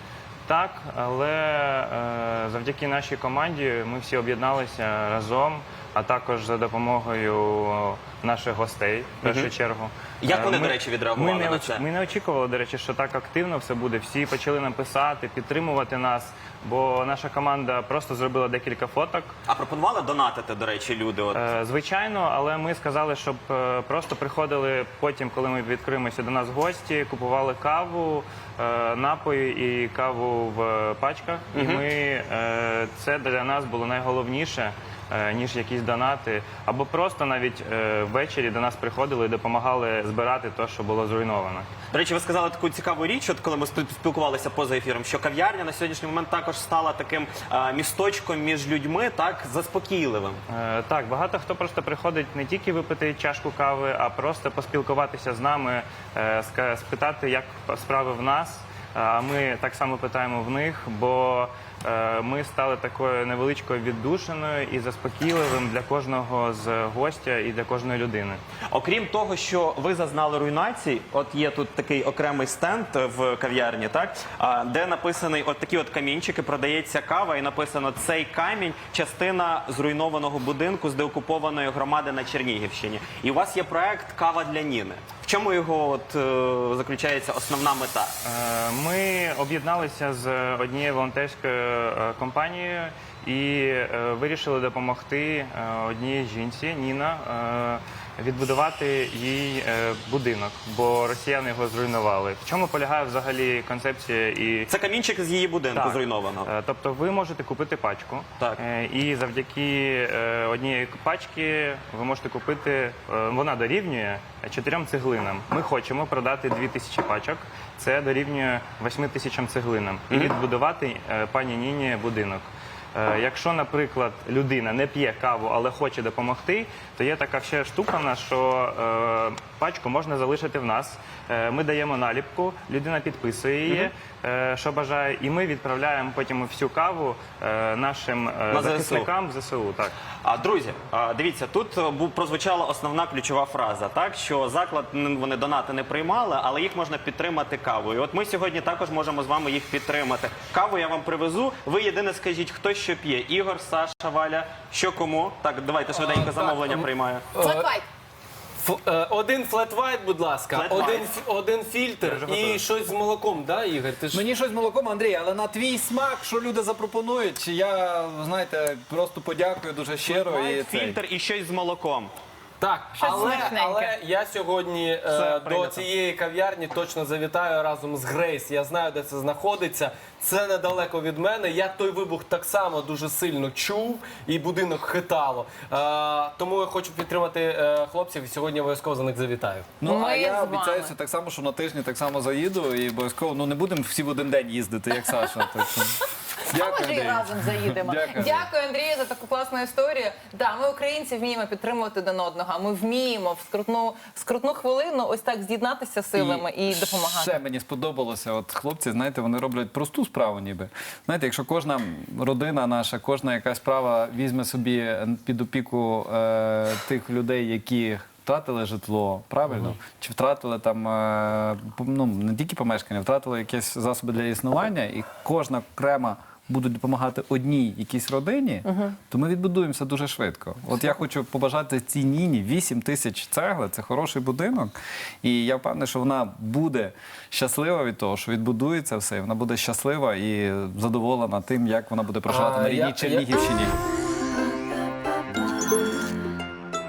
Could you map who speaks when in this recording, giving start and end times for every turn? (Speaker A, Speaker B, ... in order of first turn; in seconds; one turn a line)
Speaker A: 0.5-19.3
Speaker B: 9.2-9.5
Speaker B: 10.2-11.8
Speaker B: 19.4-21.4
Speaker A: 21.3-41.7
Speaker B: 31.5-31.8
Speaker B: 41.9-50.4
Speaker A: 50.5-68.4
Speaker B: 68.7-88.2
Speaker A: 88.2-104.7
Speaker B: 104.7-106.5
Speaker A: 105.7-139.9
Speaker B: 138.5-139.1
Speaker B: 140.2-157.2
Speaker C: 155.9-157.8
Speaker D: 157.4-157.8
Speaker C: 158.6-164.2
Speaker B: 160.5-161.1
Speaker A: 162.0-162.6
Speaker E: 164.1-171.0
Speaker B: 170.1-172.1
Speaker C: 172.6-189.7
Speaker D: 172.9-173.9
Speaker B: 175.1-175.7
Speaker E: 189.8-198.5
Speaker D: 189.8-190.9
Speaker D: 196.5-207.4
Speaker E: 206.1-243.8
Speaker C: 242.2-243.4